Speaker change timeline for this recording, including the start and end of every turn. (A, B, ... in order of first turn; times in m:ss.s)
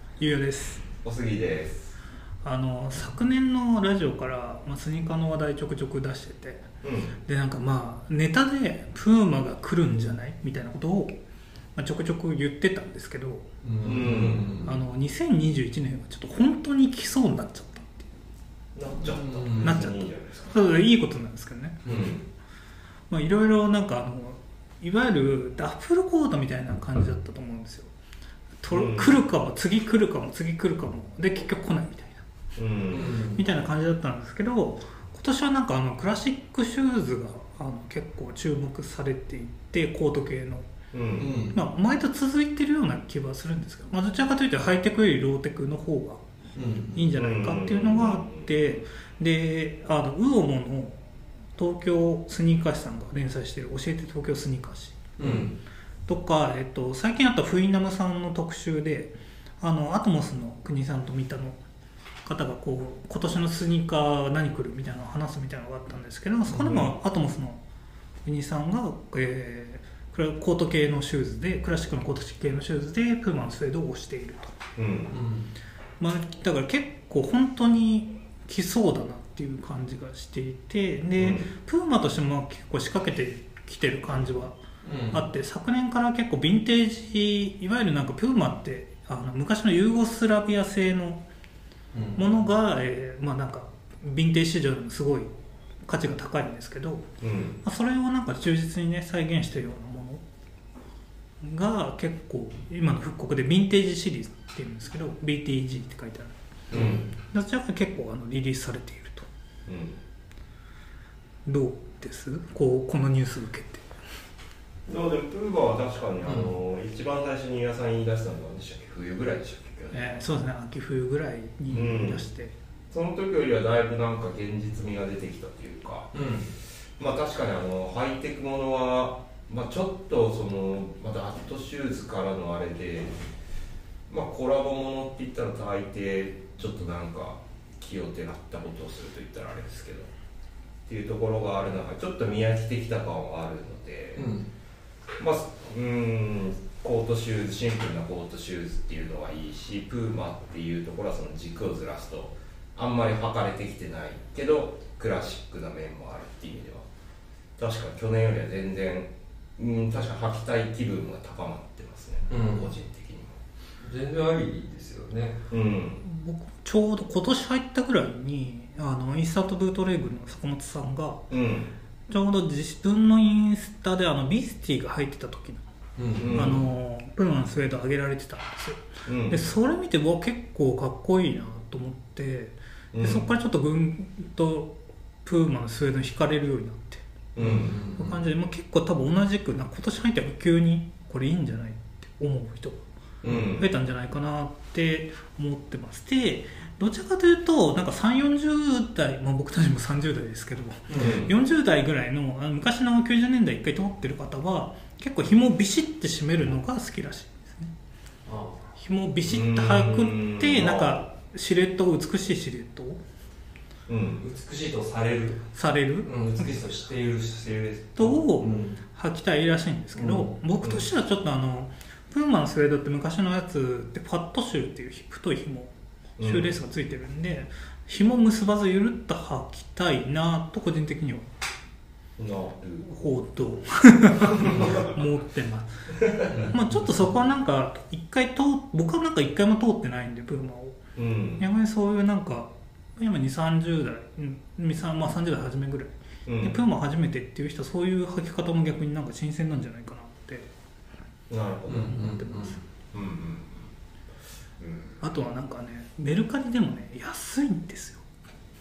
0:00.2-0:00.8 A
0:01.0-0:01.9 B
0:02.4-0:06.7 A
0:06.8-0:07.2 B
0:07.2-0:11.2 A
0:11.8-0:13.5 A
0:13.6-0:14.8 C
0:13.8-0:14.6 B
0:14.6-0:18.1 A
0:18.8-0:20.6 B
0:19.0-0:19.8 C
0:19.6-0:21.8 A
0:21.8-0:22.3 B
0:23.1-0:27.9 A
0:28.6-0:32.2 A
0:28.7-0:29.2 B
0:32.6-0:33.2 B
0:32.9-0:33.5 C
0:33.2-0:40.7 A
0:40.9-0:41.4 B
0:41.2-0:41.6 C
0:41.5-0:46.2 A
0:46.6-0:47.1 C
0:47.0-0:51.0 A
0:47.1-0:48.5 B
0:51.6-0:55.0 A
0:55.2-0:55.6 C
0:55.2-0:55.5 B
0:56.1-1:01.6 A
1:02.2-1:07.6 A
1:06.5-1:06.9 C
1:06.6-1:06.9 B
1:08.2-1:14.6 A
1:14.8-1:15.2 B
1:15.1-1:15.5 C
1:16.0-1:24.6 A
1:21.2-1:21.5 B
1:24.8-1:25.3 C
1:25.1-1:31.2 A
1:31.9-1:32.3 C
1:32.2-1:35.3 A
1:35.9-1:37.1 A
1:37.2-1:37.6 B
1:37.6-1:40.2 A
1:41.4-1:46.3 A
1:46.7-1:47.1 C
1:46.7-1:47.1 B
1:47.2-1:49.3 A
1:49.7-1:50.0 B
1:51.5-1:53.8 A
1:54.9-2:00.2 B
1:56.3-1:56.5 C
1:59.9-2:02.5 A
2:01.7-2:02.2 B
2:02.9-2:06.1 B
2:06.1-2:06.5 C
2:07.0-2:13.2 B
2:14.1-2:20.1 B
2:20.9-2:24.4 B
2:24.2-2:24.5 C
2:25.2-2:36.9 B
2:37.6-2:43.4 B
2:42.3-2:42.7 C
2:43.8-2:45.4 C
2:45.5-2:46.0 B
2:46.0-2:51.3 A
2:51.3-2:51.8 B
2:52.1-2:55.6 A
2:56.0-2:56.5 C
2:56.2-2:56.6 B
2:56.3-3:07.0 A
2:59.0-2:59.5 B
3:02.9-3:03.3 B
3:07.4-3:07.8 B
3:07.4-3:08.2 C
3:08.0-3:12.8 A
3:13.2-3:13.5 C
3:13.2-3:13.7 B
3:13.6-3:27.7 A
3:20.9-3:21.2 C
3:21.0-3:21.3 B
3:28.3-3:28.6 C
3:28.8-3:33.0 A
3:29.2-3:31.0 B
3:33.9-3:34.3 B
3:34.2-3:35.4 C
3:35.5-3:36.7 A
3:36.0-3:38.8 C
3:38.0-3:51.3 A
3:40.0-3:40.4 C
3:40.6-3:40.9 B
3:46.2-3:46.6 B
3:52.2-3:52.9 B
3:52.8-4:00.9 A
3:56.3-3:57.0 C
4:01.0-4:01.4 B
4:01.4-4:10.5 A
4:06.3-4:06.6 B
4:11.3-4:12.1 B
4:11.7-4:12.6 C
4:11.8-4:12.6 A
4:12.9-4:13.7 B
4:14.6-4:15.0 B
4:15.0-4:18.0 A